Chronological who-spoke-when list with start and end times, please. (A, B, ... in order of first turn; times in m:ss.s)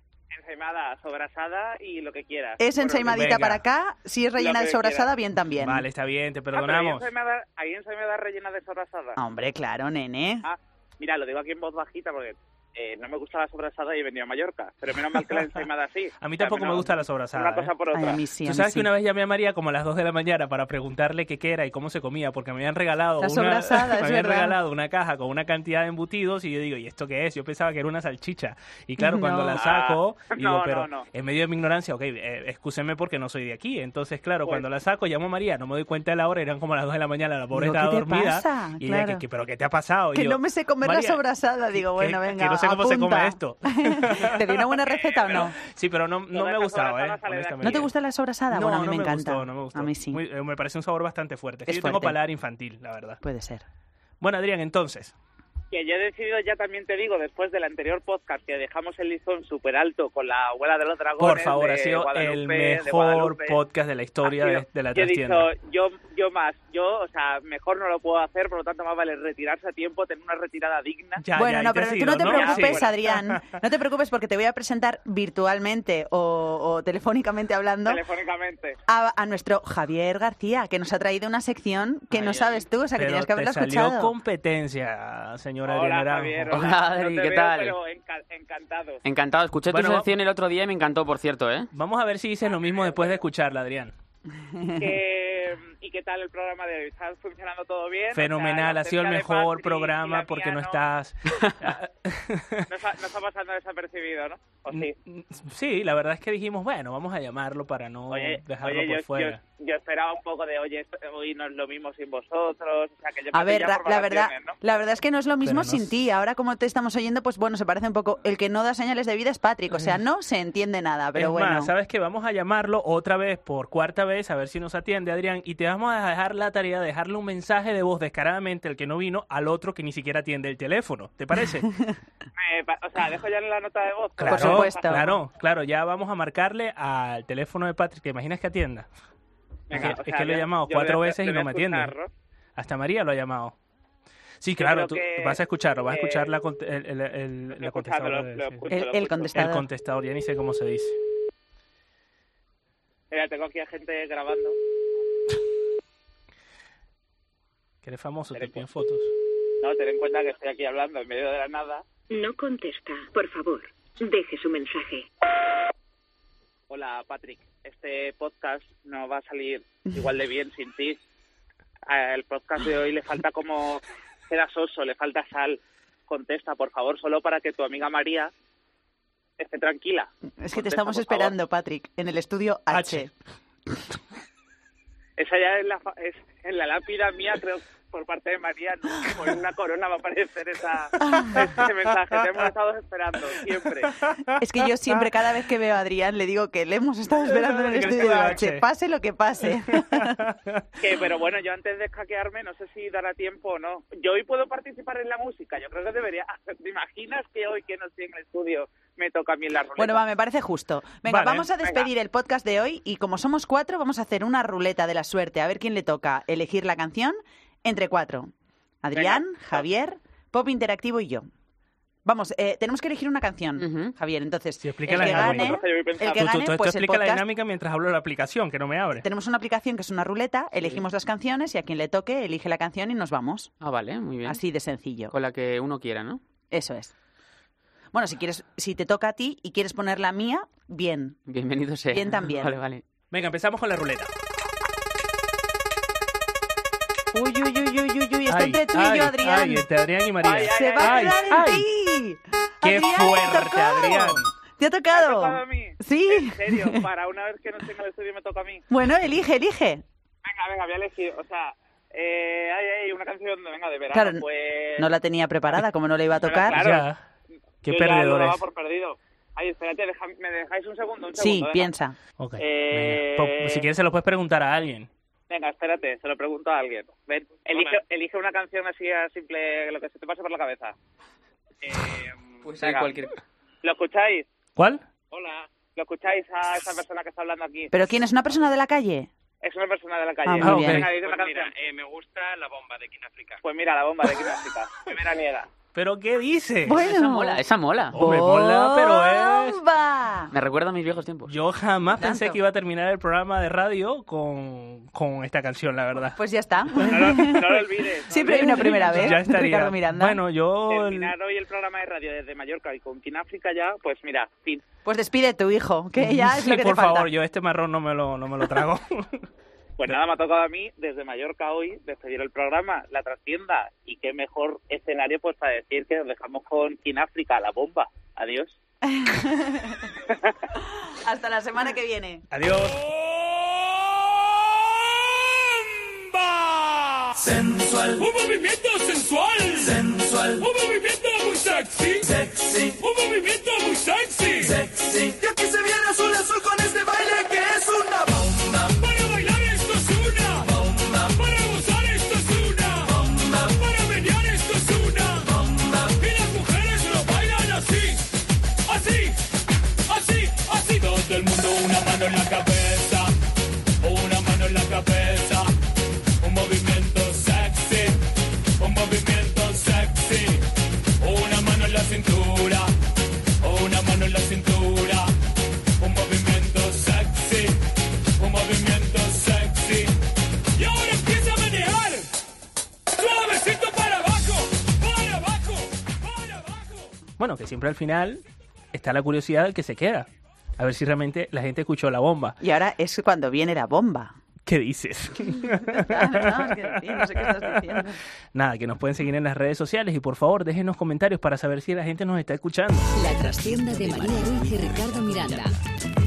0:00.3-0:03.4 A
0:02.6-0:05.8 B
0:03.1-0:03.6 C
0:04.4-0:05.1 A
0:05.6-0:07.1 C
0:06.5-0:09.2 A
0:09.2-0:10.4 B
0:10.4-0:18.2 A
0:16.2-0:17.7 C
0:17.9-0:18.9 B
0:18.4-0:41.2 C
0:23.2-0:24.6 B
0:29.0-0:29.6 B
0:29.5-0:31.1 A
0:37.5-0:39.2 B
0:40.1-0:45.6 B
0:41.7-0:44.7 C
0:45.0-0:45.4 A
0:45.3-0:47.9 C
0:46.3-0:47.9 A
0:47.6-0:50.2 B
0:48.5-0:53.2 C
0:51.7-0:52.2 B
0:53.2-0:53.6 B
0:54.2-0:55.1 C
0:55.7-1:03.6 A
1:01.2-1:05.5 C
1:04.2-1:11.2 A
1:11.2-1:13.4 C
1:11.3-1:18.0 B
1:12.2-1:12.9 A
1:17.8-1:18.8 A
1:18.9-1:24.1 B
1:22.1-1:22.6 D
1:22.9-1:26.6 C
1:25.6-1:29.0 A
1:26.5-1:27.8 D
1:29.0-1:31.7 D
1:29.7-1:30.1 C
1:31.7-1:33.9 C
1:32.4-1:33.2 A
1:34.3-1:35.0 B
1:34.8-1:40.8 A
1:38.1-1:42.6 C
1:42.7-1:44.9 A
1:44.7-1:49.4 C
1:48.1-1:54.6 A
1:53.3-2:01.7 B
1:55.4-1:55.9 C
1:59.7-2:00.0 C
2:01.1-2:11.7 C
2:12.4-2:15.1 A
2:14.2-2:18.9 C
2:14.3-2:15.1 B
2:19.7-2:22.1 A
2:19.7-2:21.9 C
2:22.6-2:23.6 C
2:24.4-2:28.7 C
2:24.6-2:26.3 A
2:27.5-2:29.4 A
2:28.7-2:29.6 B
2:29.3-2:31.0 C
2:33.1-2:34.6 A
2:37.8-2:39.1 C
2:38.3-2:38.6 A
2:39.6-2:41.9 A
2:42.1-2:45.0 E
2:46.7-2:51.0 A
2:51.9-2:58.3 A
2:59.4-3:01.4 A
3:00.4-3:03.1 B
3:02.7-3:03.0 C
3:05.2-3:14.0 A
3:11.0-3:11.6 B
3:14.0-3:14.4 C
3:14.4-3:20.2 B
3:17.2-3:18.6 C
3:19.8-3:20.6 C
3:20.8-3:30.0 A
3:29.8-3:38.3 B
3:31.1-3:31.5 C
3:31.6-3:31.9 A
3:38.8-3:41.3 B
3:38.9-3:39.6 A
3:42.0-3:47.2 B
3:43.6-3:43.9 D
3:44.6-3:49.0 C
3:44.9-3:46.4 A
3:49.0-3:53.5 B
3:53.6-3:54.4 D
3:54.2-3:55.1 B
3:55.1-3:56.2 D
3:56.5-3:56.9 B
3:57.9-4:01.2 B
4:01.3-4:02.8 D
4:01.9-4:02.6 B
4:03.1-4:04.1 C
4:07.1-4:09.6 B
4:08.3-4:11.6 C
4:10.2-4:11.4 A
4:10.4-4:16.8 B
4:12.6-4:14.3 C
4:14.9-4:18.6 A
4:18.7-4:19.8 B
4:20.2-4:24.9 A
4:23.9-4:24.2 B
4:24.8-4:26.6 B
4:26.2-4:26.9 A
4:26.4-4:27.0 C
4:27.6-4:31.7 A
4:27.6-4:28.4 C
4:31.2-4:32.0 B
4:32.2-4:34.9 C
4:32.4-4:33.6 A
4:35.3-4:40.7 A
4:41.6-4:43.0 A
4:42.4-4:43.1 D
4:43.6-4:44.2 A
4:44.6-4:44.8 C
4:45.1-4:47.7 A
4:47.7-4:49.1 B
4:49.4-4:51.5 A
4:50.2-4:50.9 B
4:50.4-4:50.9 C
4:53.4-4:55.5 A
4:55.7-4:56.8 C
4:56.6-4:57.4 B
4:56.7-4:58.0 D
4:57.9-4:59.6 C
4:57.9-5:00.3 B
5:00.3-5:01.3 D
5:01.3-5:06.2 C
5:02.0-5:02.4 B
5:06.2-5:10.2 B
5:06.8-5:09.1 A
5:08.1-5:11.1 C
5:10.7-5:14.6 A
5:14.8-5:17.1 B
5:16.0-5:19.2 C
5:19.8-5:28.6 A
5:28.8-5:29.9 B
5:30.1-5:30.3 A
5:30.9-5:32.2 B
5:32.3-5:32.7 C
5:32.8-5:33.9 F
5:35.8-5:58.1 F
5:58.7-5:59.3 F
5:59.9-6:03.1 F
6:03.8-6:05.5 F
6:06.2-6:08.0 F
6:08.6-6:10.5 F
6:11.0-6:12.7 F
6:13.4-6:15.1 F
6:15.8-6:17.6 F
6:18.2-6:19.9 F
6:20.6-6:22.1 F
6:22.9-6:26.9 F
6:27.2-6:28.2 C
6:28.7-6:32.4 C
6:32.4-6:34.1 B
6:34.5-6:37.6 C
6:35.3-6:38.0 B
6:38.3-6:42.9 C
6:42.9-6:45.5 G